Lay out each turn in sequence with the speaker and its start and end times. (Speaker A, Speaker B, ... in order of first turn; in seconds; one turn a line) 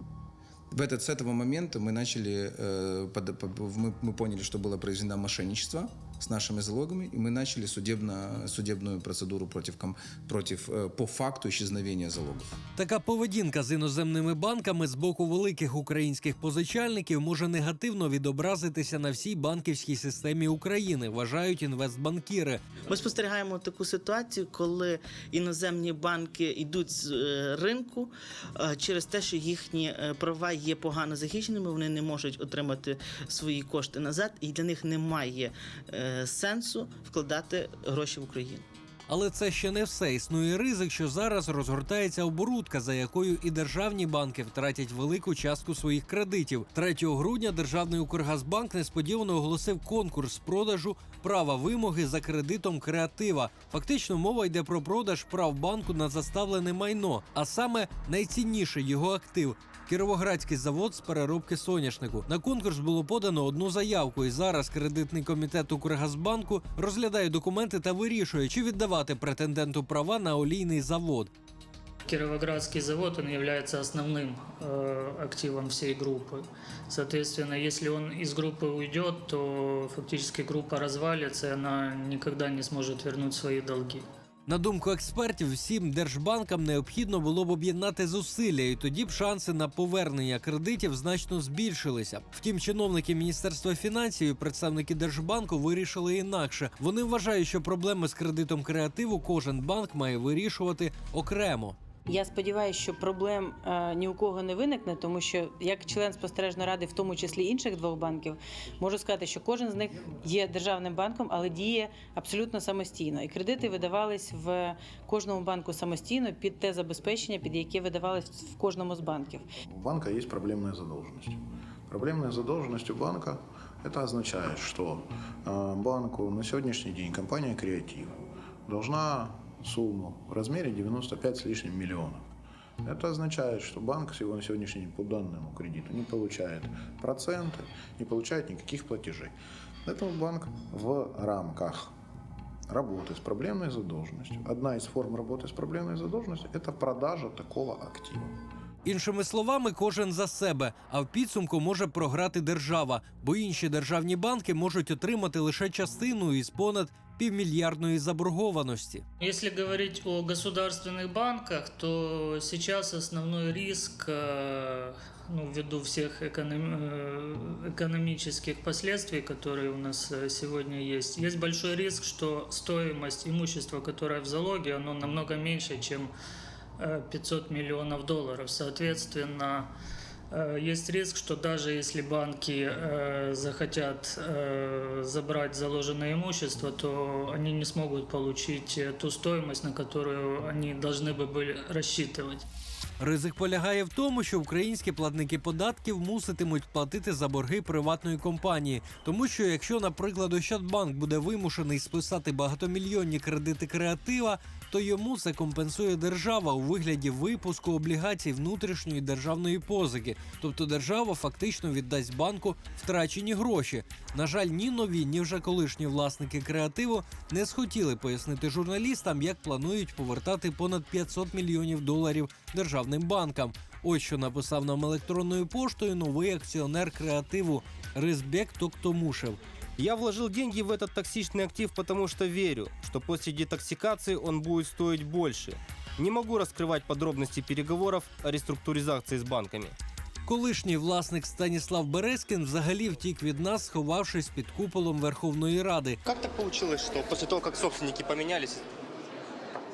Speaker A: 0.7-12.5
Speaker B: 12.8-22.6
Speaker C: 22.9-38.6
Speaker B: 39.1-71.3
Speaker D: 72.0-84.0
Speaker B: 84.5-101.8
Speaker E: 102.1-119.5
Speaker F: 119.7-128.2
Speaker F: 128.7-132.2
Speaker F: 132.8-139.3
Speaker F: 139.9-141.9
Speaker F: 142.7-148.3
Speaker B: 148.8-159.1
Speaker D: 159.2-176.1
Speaker D: 176.8-179.7
Speaker D: 180.3-192.5
Speaker B: 193.0-229.4
Speaker G: 229.8-239.8
Speaker B: 240.2-246.0
Speaker G: 246.1-248.7